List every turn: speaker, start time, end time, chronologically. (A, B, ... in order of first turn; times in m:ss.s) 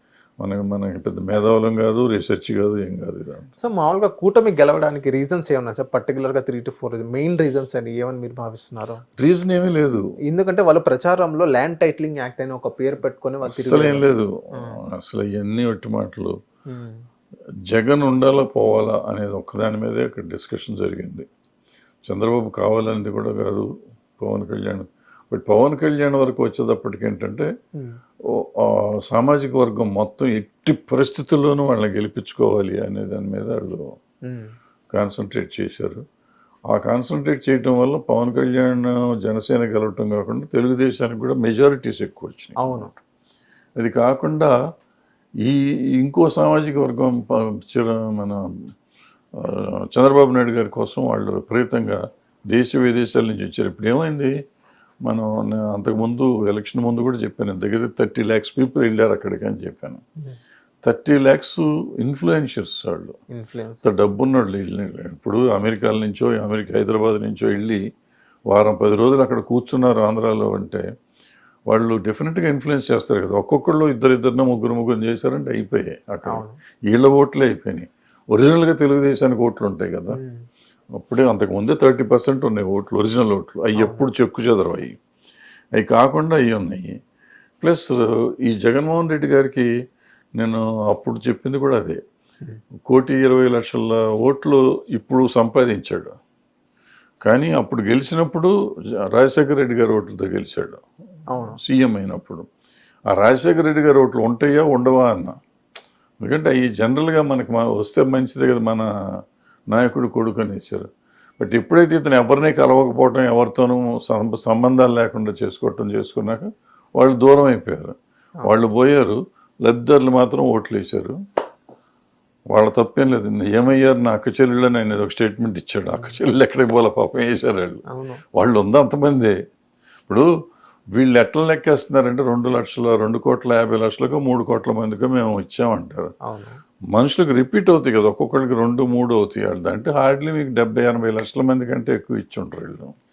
0:00.4-0:03.5 A
0:03.6-0:09.0 B
0:09.2-0:10.1 A
0:10.3-0:14.8 B
0:13.4-0:16.4 A
0:16.7-0:17.0 B
0:17.7-0:21.3 A
0:22.1-0:27.5 A
0:28.3-0:33.9 A
0:34.3-0:34.5 B
0:34.9-0:36.0 A
0:36.7-0:43.0 A
0:42.6-0:42.9 B
0:43.8-0:44.5 A
0:45.4-0:48.4 A
0:49.4-0:54.3 A
0:55.0-1:00.0 A
1:00.8-1:03.2 A
1:03.3-1:04.0 B
1:03.8-1:07.8 A
1:08.5-1:10.8 A
1:11.7-1:20.2 A
1:16.3-1:16.6 B
1:20.1-1:20.4 B
1:21.0-1:25.0 A
1:23.8-1:24.1 B
1:25.8-1:26.9 A
1:27.6-1:29.7 A
1:30.4-1:32.0 A
1:32.9-1:36.1 A
1:37.2-1:38.5 A
1:39.1-1:40.8 A
1:41.3-1:41.6 B
1:41.6-1:42.5 A
1:43.1-1:45.4 A
1:46.2-1:48.9 A
1:49.7-1:50.9 A
1:51.4-2:01.2 A
2:02.5-2:07.8 A
2:07.9-2:08.2 B
2:08.3-2:09.4 A
2:10.9-2:16.1 A
2:16.2-2:16.6 B
2:16.9-2:22.9 A